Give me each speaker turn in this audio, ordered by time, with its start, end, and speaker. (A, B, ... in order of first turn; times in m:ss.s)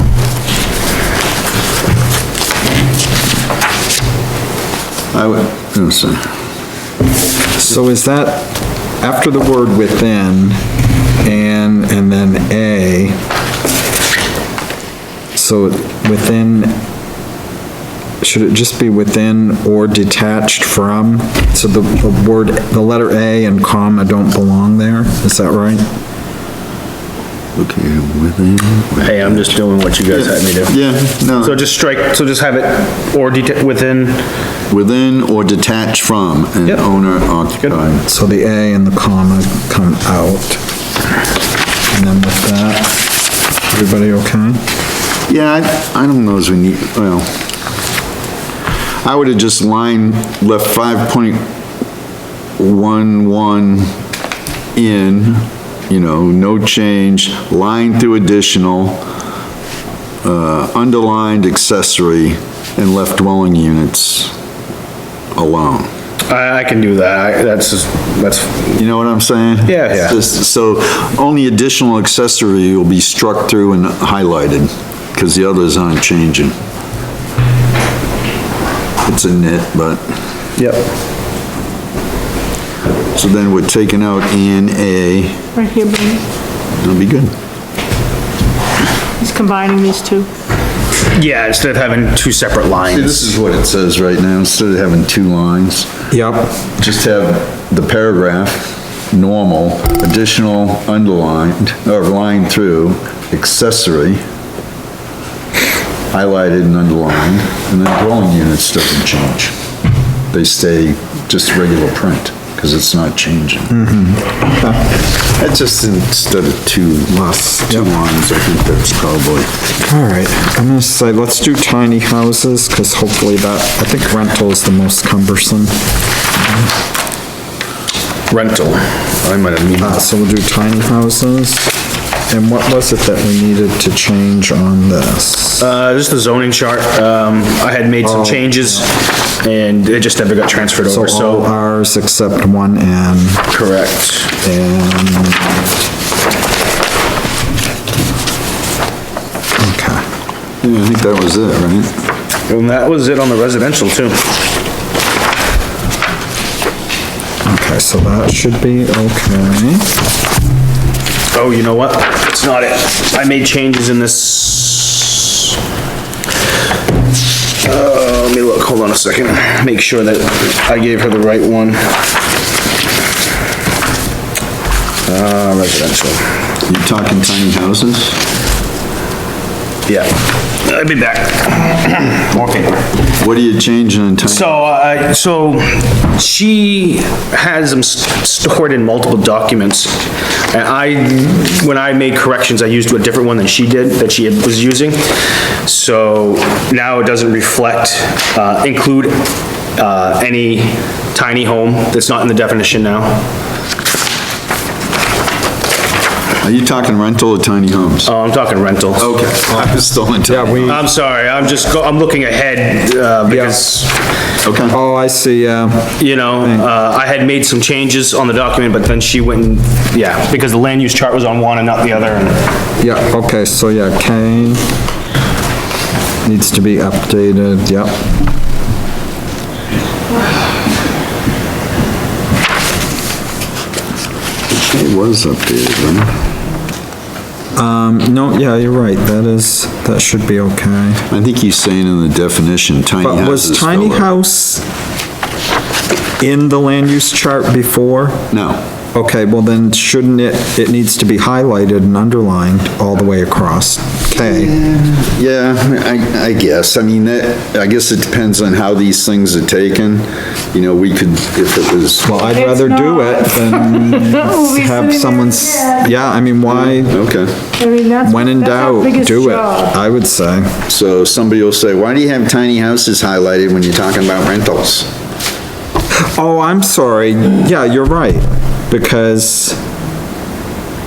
0:05.1-0:06.2 A
0:07.6-0:10.6 B
0:11.2-0:13.2 B
0:15.3-0:16.8 B
0:18.2-0:25.8 B
0:27.6-0:29.6 A
0:29.0-0:30.8 C
0:30.1-0:31.7 A
0:31.4-0:34.2 C
0:34.7-0:38.1 A
0:38.1-0:40.6 B
0:41.9-0:44.6 B
0:45.3-0:47.3 A
0:49.0-0:51.5 A
0:52.6-0:53.9 A
0:54.7-0:59.0 A
1:00.2-1:04.3 A
1:05.3-1:05.9 A
1:06.3-1:08.8 C
1:08.7-1:16.6 A
1:09.6-1:10.2 C
1:19.0-1:20.0 A
1:23.1-1:25.4 A
1:25.5-1:26.2 D
1:26.7-1:27.3 A
1:29.2-1:30.3 D
1:31.1-1:33.3 C
1:32.9-1:35.9 A
1:36.1-1:36.5 B
1:36.8-1:44.2 A
1:46.1-1:49.5 A
1:50.3-1:53.8 A
1:53.7-1:54.8 B
1:55.2-1:59.5 A
1:57.1-1:57.9 B
1:59.8-2:05.7 B
2:08.3-2:10.0 C
2:09.8-2:11.7 B
2:12.3-2:15.7 B
2:15.6-2:21.5 C
2:18.0-2:18.8 B
2:20.8-2:23.4 B
2:23.5-2:24.3 C
2:24.4-2:25.5 B
2:29.6-2:30.0 B
2:30.6-2:31.9 A
2:32.5-2:34.3 C
2:37.4-2:39.8 B
2:41.3-2:45.5 C
2:47.6-2:52.0 C
2:55.0-2:56.4 C
2:56.6-2:58.2 A
2:59.9-3:03.0 C
3:03.1-3:04.6 A
3:04.2-3:19.2 C
3:19.7-3:23.2 C
3:26.4-3:28.1 A
3:28.0-3:29.1 C
3:29.0-3:30.8 A
3:29.5-3:30.8 B
3:30.7-3:34.0 C
3:33.3-3:33.6 B
3:34.4-3:34.8 A
3:34.7-3:36.7 B
3:36.0-3:42.4 C
3:42.8-3:44.6 B
3:46.2-3:48.0 B
3:54.5-3:56.1 A
3:57.5-4:01.0 B
4:01.1-4:04.1 A
4:03.0-4:04.6 B
4:06.2-4:08.2 B
4:08.3-4:08.6 A
4:08.9-4:14.5 B
4:14.1-4:22.2 A
4:22.0-4:27.0 B
4:22.2-4:25.8 D
4:26.5-4:27.4 A
4:27.6-4:29.7 D
4:28.0-4:30.6 B
4:30.7-4:34.9 A
4:35.9-4:39.6 B